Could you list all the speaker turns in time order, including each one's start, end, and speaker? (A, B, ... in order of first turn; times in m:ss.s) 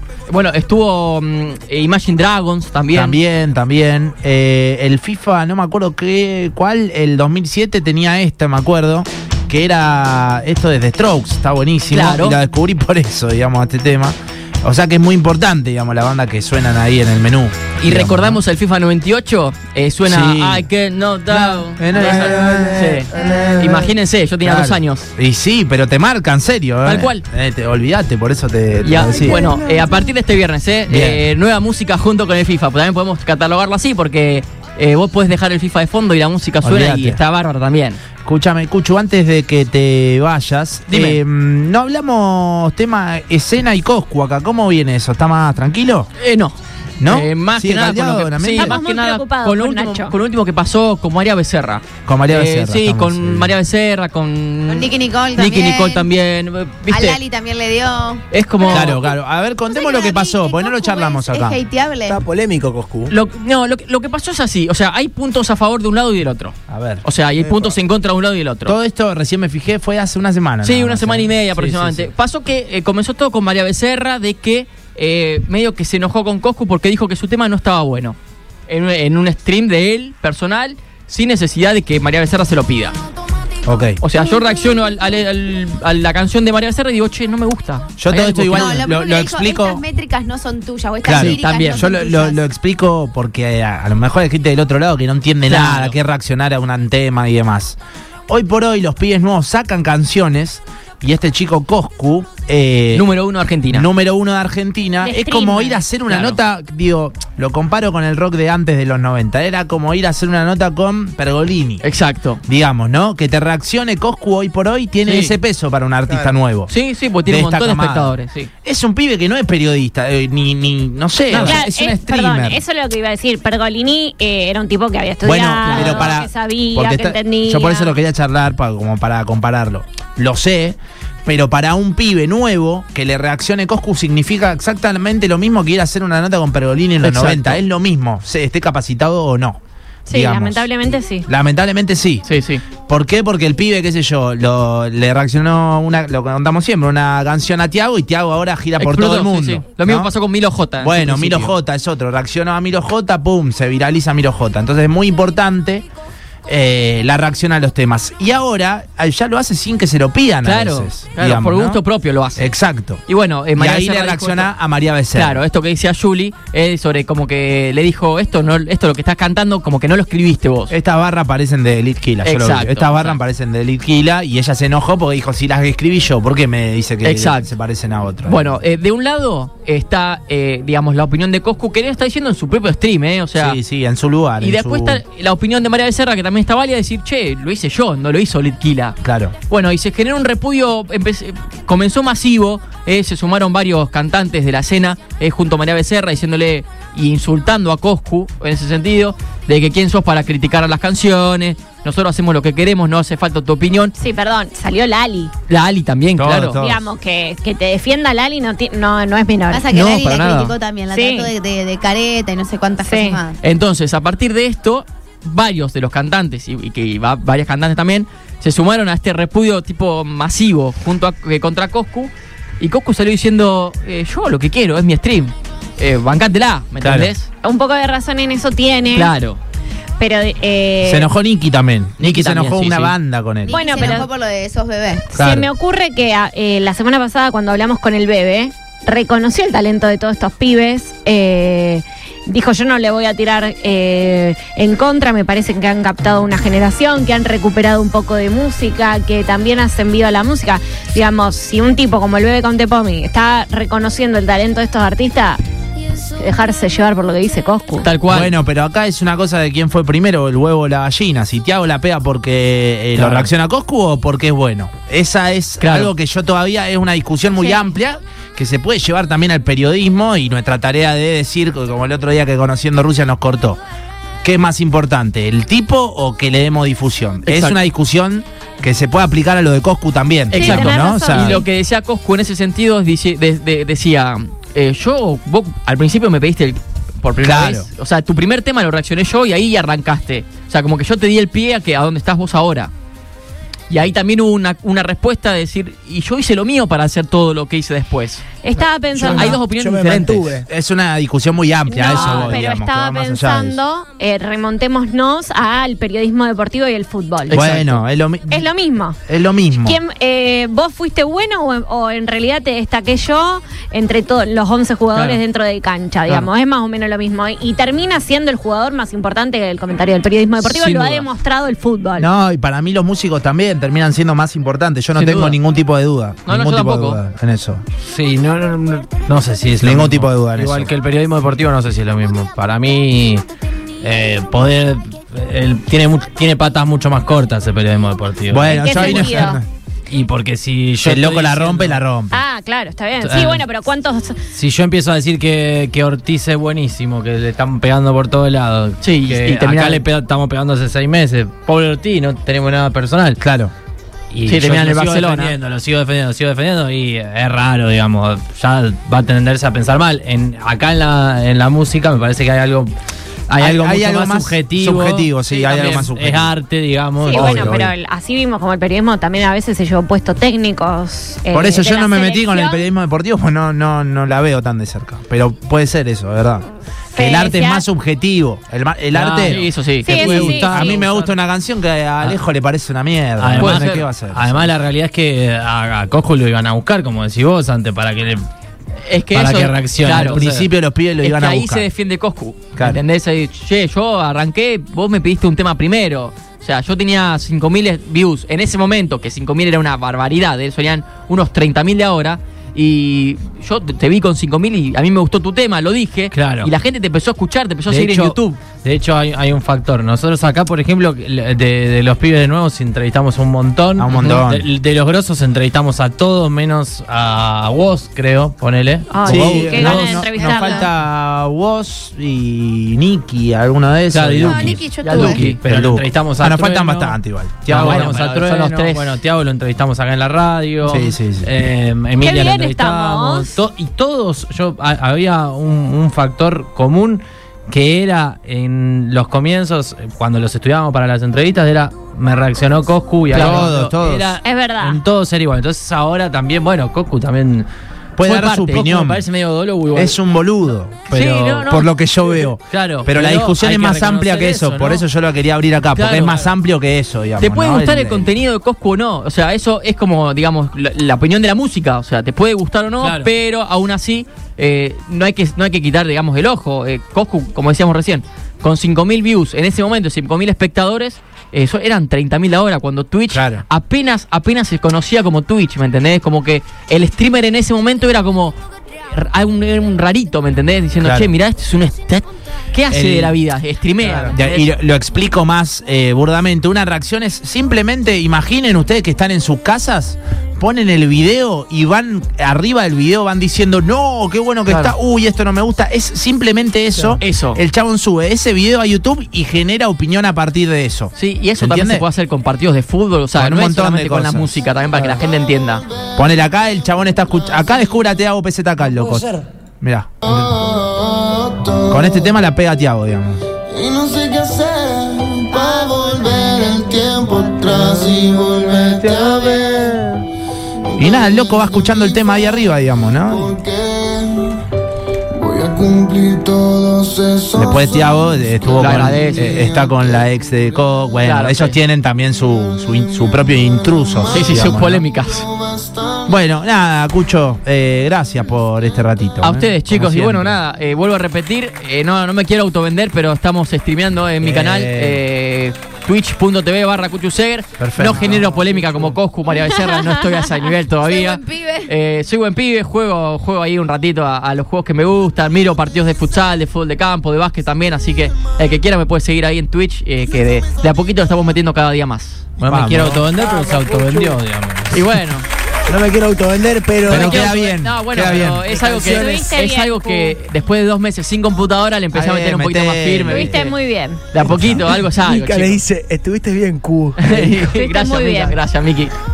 0:00.3-0:03.2 A
0:02.9-0:18.4 B
0:11.9-0:12.4 A
0:17.8-0:25.1 A
0:20.0-0:20.7 B
0:21.3-0:29.4 B
0:26.8-0:27.2 A
0:28.8-0:38.0 A
0:29.4-0:29.9 C
0:30.9-0:31.2 B
0:36.6-0:37.2 B
0:38.2-0:46.1 B
0:40.9-0:41.2 A
0:46.2-0:57.2 A
0:47.0-0:48.8 B
0:48.5-0:50.2 D
0:52.1-0:53.5 B
0:54.7-0:56.1 E
0:56.9-0:59.1 E
0:58.3-0:59.0 A
0:58.7-1:01.6 B
0:59.7-1:02.2 E
1:02.1-1:03.1 C
1:03.1-1:08.8 A
1:06.7-1:07.0 B
1:08.7-1:12.1 B
1:10.6-1:18.2 A
1:18.7-1:23.0 A
1:23.7-1:24.0 B
1:24.0-1:28.9 A
1:28.0-1:29.8 B
1:28.5-1:32.4 E
1:31.0-1:43.1 B
1:31.1-1:31.9 A
1:35.5-1:35.9 A
1:42.9-1:43.9 A
1:43.7-1:51.8 B
1:45.0-1:45.8 D
1:46.1-1:46.4 A
1:51.8-1:52.4 A
1:52.4-1:56.7 B
1:55.0-1:55.4 A
1:56.1-1:56.4 C
1:56.7-1:58.5 A
1:57.2-2:02.6 B
2:01.3-2:01.7 A
2:01.3-2:07.9 D
2:05.2-2:20.7 B
2:05.6-2:06.2 A
2:17.0-2:17.6 A
2:20.1-2:21.3 D
2:21.3-2:22.2 B
2:22.2-2:22.6 A
2:22.8-2:30.1 B
2:28.8-2:31.6 A
2:30.8-2:35.8 B
2:36.5-2:41.8 B
2:40.4-2:42.5 A
2:42.4-2:43.0 B
2:43.1-2:44.5 A
2:43.6-2:45.4 B
2:45.1-2:50.7 A
2:50.7-2:58.6 B
2:52.2-2:53.2 A
2:57.0-2:57.5 A
2:58.3-3:03.6 A
3:03.4-3:05.0 B
3:04.4-3:09.0 A
3:09.0-3:09.3 B
3:09.5-3:23.9 A
3:24.0-3:25.3 D
3:25.5-3:26.6 A
3:26.2-3:26.9 B
3:26.6-3:29.7 D
3:29.5-3:33.4 E
3:29.7-3:30.5 A
3:30.9-3:31.3 D
3:32.8-3:33.2 D
3:33.4-3:47.3 A
3:46.8-3:47.1 B
3:47.4-3:49.1 D
3:48.9-3:49.4 A
3:50.0-3:51.1 D
3:50.8-3:53.6 B
3:52.0-3:53.0 A
3:53.5-3:55.1 E
3:53.5-3:54.1 D
3:55.1-4:15.4 D
3:55.2-3:55.5 B
4:16.2-4:17.9 D
4:17.8-4:18.3 A
4:18.1-4:33.6 B
4:23.0-4:23.3 A
4:25.6-4:25.9 A
4:34.2-4:41.4 B
4:37.3-4:37.6 A
4:40.3-4:52.7 A
4:40.3-4:41.5 D
4:47.2-4:47.7 B
4:53.7-4:58.3 A
4:58.4-4:59.4 D
4:58.9-5:00.5 C
4:59.0-5:00.4 A
5:00.5-5:03.6 B
5:01.7-5:07.4 D
5:01.9-5:02.4 A
5:07.3-5:07.8 A
5:07.3-5:08.5 B
5:08.3-5:09.0 D
5:09.1-5:09.8 B
5:09.6-5:22.1 D
5:14.9-5:15.2 A
5:20.4-5:21.1 A
5:22.0-5:27.6 B
5:25.0-5:25.4 A
5:26.3-5:27.0 A
5:27.8-5:33.2 F
5:29.6-5:30.7 B
5:33.8-5:39.3 F
5:38.3-5:39.5 B
5:38.5-5:39.4 D
5:39.9-5:41.8 F
5:40.8-5:42.2 B
5:42.1-5:44.2 D
5:43.0-5:43.4 F
5:44.4-5:53.2 F
5:48.8-5:49.8 A
5:53.2-5:53.5 B
5:54.1-6:02.7 F
5:54.3-5:55.4 A
6:03.3-6:07.7 F
6:03.4-6:06.4 B
6:05.3-6:05.9 A
6:07.0-6:12.6 D
6:07.1-6:07.6 B
6:11.3-6:24.5 B
6:16.9-6:17.6 D
6:19.0-6:20.2 A
6:19.1-6:21.1 F
6:19.8-6:20.8 D
6:23.2-6:28.3 F
6:23.4-6:23.9 A
6:28.8-6:30.2 A
6:29.1-6:30.5 F
6:29.8-6:31.7 B
6:31.0-6:48.4 A
6:32.6-6:32.8 B
6:46.1-6:46.5 F
6:47.7-7:00.1 F
6:53.8-6:54.5 B
6:58.9-7:00.7 D
6:59.0-7:08.0 B
7:00.2-7:00.7 E
7:03.9-7:27.5 F
7:04.2-7:05.2 E
7:04.8-7:05.4 A
7:07.5-7:08.9 A
7:10.6-7:11.3 B
7:12.0-7:13.4 D
7:23.1-7:23.7 A
7:23.1-7:24.1 B
7:24.2-7:24.8 D
7:28.0-7:29.1 B
7:28.0-7:28.6 A
7:28.5-7:30.0 F
7:29.7-7:38.1 B
7:30.9-7:31.7 A
7:32.5-7:34.8 F
7:35.8-7:36.3 F
7:35.8-7:36.2 A
7:37.2-7:58.4 A
7:42.8-7:43.1 F
7:53.1-7:53.4 B
7:58.9-8:04.5 A
8:00.8-8:01.1 B
8:02.7-8:03.2 B
8:03.8-8:21.8 B
8:14.5-8:14.7 A
8:17.0-8:17.4 A
8:21.0-8:25.6 A
8:23.2-8:25.0 B
8:26.0-8:30.3 B
8:30.0-8:32.2 G
8:31.7-8:33.2 B
8:33.5-8:39.9 G
8:37.5-8:39.1 C
8:40.8-8:42.0 G
8:40.8-8:43.4 B
8:43.2-8:44.4 G
8:45.1-8:50.1 G
8:47.4-8:54.8 B
8:48.6-8:49.4 A
8:51.0-8:51.6 A
8:54.0-8:54.5 G
8:54.1-8:55.2 A
8:55.1-8:56.2 G
8:56.1-9:00.4 B
8:59.2-9:22.2 A
9:04.2-9:05.0 B
9:07.6-9:08.9 B
9:08.1-9:08.5 C
9:09.4-9:10.5 D
9:10.8-9:11.7 E
9:22.4-9:25.0 F
9:22.4-9:23.1 B
9:23.1-9:24.2 C
9:24.7-9:25.3 A
9:25.7-9:27.3 C
9:26.9-9:28.5 B
9:26.9-9:33.6 A
9:28.4-9:29.2 C
9:28.9-9:30.2 D
9:31.9-9:33.4 B
9:33.1-9:34.1 D
9:34.1-9:35.6 A
9:34.2-9:34.7 B
9:34.3-9:37.6 C
9:37.0-9:38.9 A
9:37.4-9:38.4 D